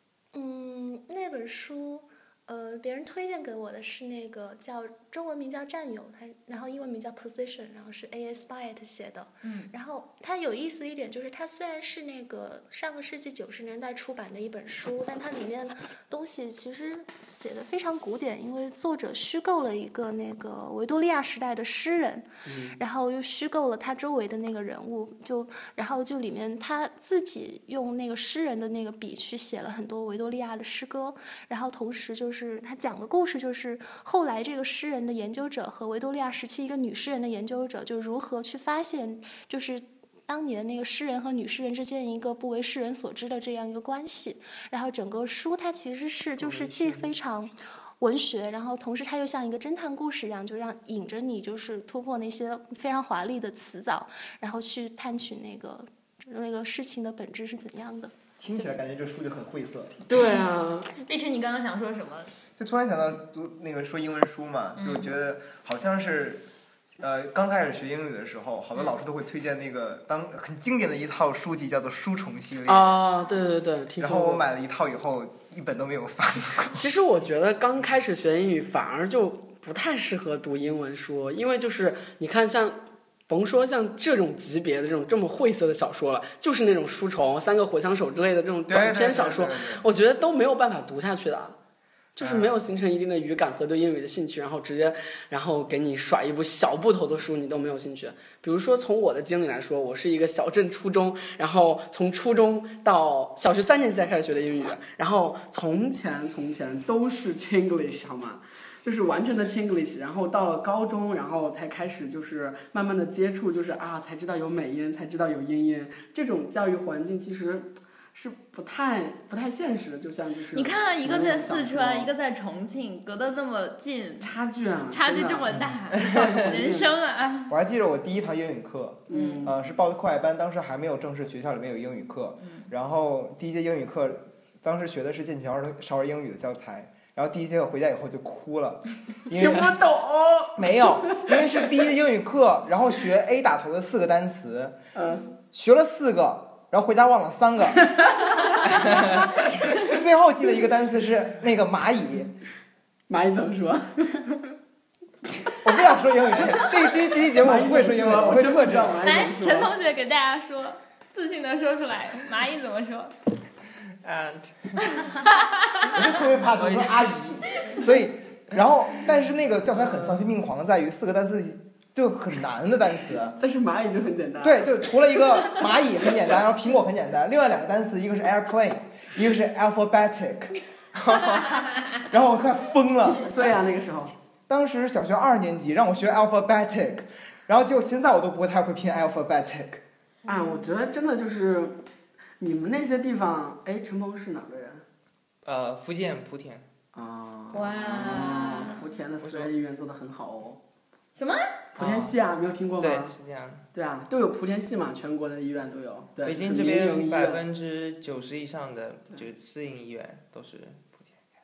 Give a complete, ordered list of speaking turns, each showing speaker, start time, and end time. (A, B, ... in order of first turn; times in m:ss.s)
0:00.3-0:58.1 A
0:09.4-0:09.7 B
0:22.5-0:22.8 C
0:46.4-0:47.1 C
0:58.4-1:00.0 D
1:00.1-1:00.9 C
1:00.9-1:02.3 B
1:02.6-1:06.4 D
1:04.8-1:05.0 B
1:07.0-1:13.0 D
1:12.7-1:14.4 C
1:14.0-1:16.8 D
1:16.7-1:31.6 C
1:28.7-1:29.9 D
1:32.2-2:02.1 C
1:32.2-1:32.6 D
2:00.5-2:04.3 B
2:04.2-2:06.9 C
2:04.9-2:07.5 B
2:07.5-2:19.8 D
2:09.1-2:09.5 C
2:09.1-2:09.5 B
2:12.4-2:12.7 B
2:19.3-2:21.4 C
2:20.6-2:24.8 D
2:24.9-2:25.3 C
2:25.5-2:27.9 D
2:27.8-2:29.2 C
2:29.7-2:32.3 D
2:33.1-2:34.5 C
2:35.6-2:39.0 D
2:37.3-2:39.7 C
2:39.0-2:43.1 B
2:44.0-2:45.2 E
2:44.9-2:45.9 B
2:45.9-2:53.4 D
2:46.6-2:47.1 E
2:49.8-2:50.1 C
2:53.4-2:54.8 C
2:54.4-3:00.6 D
3:01.1-3:01.4 E
3:02.0-3:03.3 D
3:03.2-3:04.1 C
3:04.5-3:09.8 D
3:10.2-3:10.6 B
3:10.3-3:11.8 C
3:12.4-3:14.8 C
3:15.4-3:16.6 E
3:16.9-3:20.6 C
3:17.5-3:18.8 B
3:19.2-3:19.5 E
3:21.2-3:21.5 B
3:21.8-3:22.2 E
3:21.8-3:23.1 C
3:22.8-3:23.6 E
3:23.7-3:27.4 C
3:26.2-3:31.1 E